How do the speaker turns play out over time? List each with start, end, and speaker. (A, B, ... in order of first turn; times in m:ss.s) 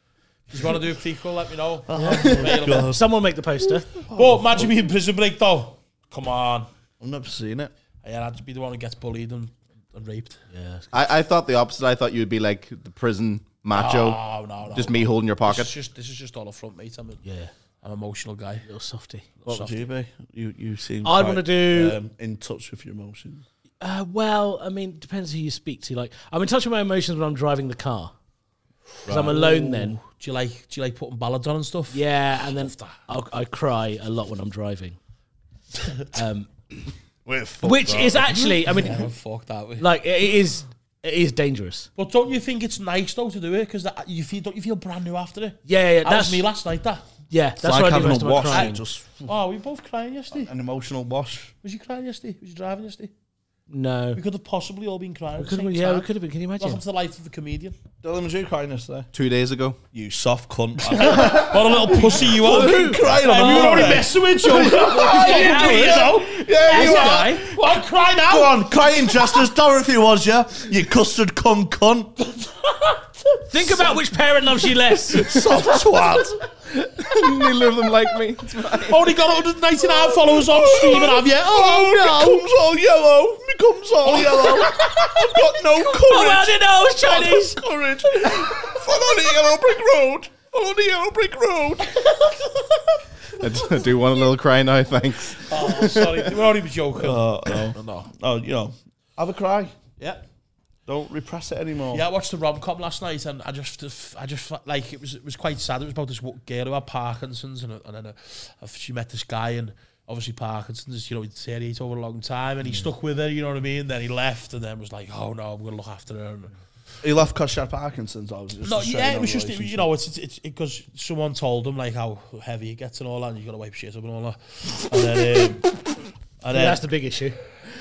0:00.5-0:02.9 A
0:01.9-0:03.0 B
0:02.6-0:04.0 C
0:04.0-0:04.7 B
0:04.1-0:06.7 A
0:07.0-0:07.7 B
0:08.0-0:10.4 A
0:10.5-0:11.0 C
0:10.9-0:15.7 D
0:13.7-0:17.2 A
0:17.2-0:17.5 C
0:17.8-0:18.7 A
0:18.6-0:19.3 C
0:19.4-0:19.9 A
0:19.5-0:23.4 B
0:21.0-0:22.0 C
0:23.8-0:28.1 C
0:29.1-0:30.0 C
0:29.1-0:33.0 A
0:31.9-0:35.0 C
0:36.1-0:36.8 C
0:37.3-0:38.6 B
0:37.6-0:39.1 C
0:38.6-0:39.9 A
0:39.8-0:41.9 C
0:42.0-0:47.1 A
0:45.7-0:46.5 C
0:47.3-0:48.8 C
0:47.6-0:49.3 B
0:48.5-0:50.5 A
0:50.3-0:51.5 B
0:51.6-0:53.1 A
0:53.7-0:54.2 C
0:54.2-0:57.8 A
0:55.4-0:56.8 C
0:58.0-0:59.1 B
0:59.1-0:59.8 D
0:59.9-1:12.2 B
1:00.8-1:08.6 A
1:02.3-1:04.1 C
1:04.7-1:07.2 C
1:12.4-1:14.0 A
1:13.5-1:15.4 C
1:15.1-1:16.4 B
1:16.7-1:19.2 D
1:18.7-1:22.4 A
1:20.5-1:32.1 B
1:20.5-1:22.4 D
1:24.1-1:25.2 C
1:25.7-1:27.7 C
1:28.2-1:28.5 C
1:33.3-1:36.4 D
1:35.4-1:38.1 A
1:37.0-1:39.8 B
1:40.0-1:40.2 A
1:40.9-1:42.0 B
1:41.9-1:56.6 A
1:57.0-1:59.9 B
1:58.6-2:05.7 A
2:06.5-2:06.8 B
2:06.5-2:07.4 C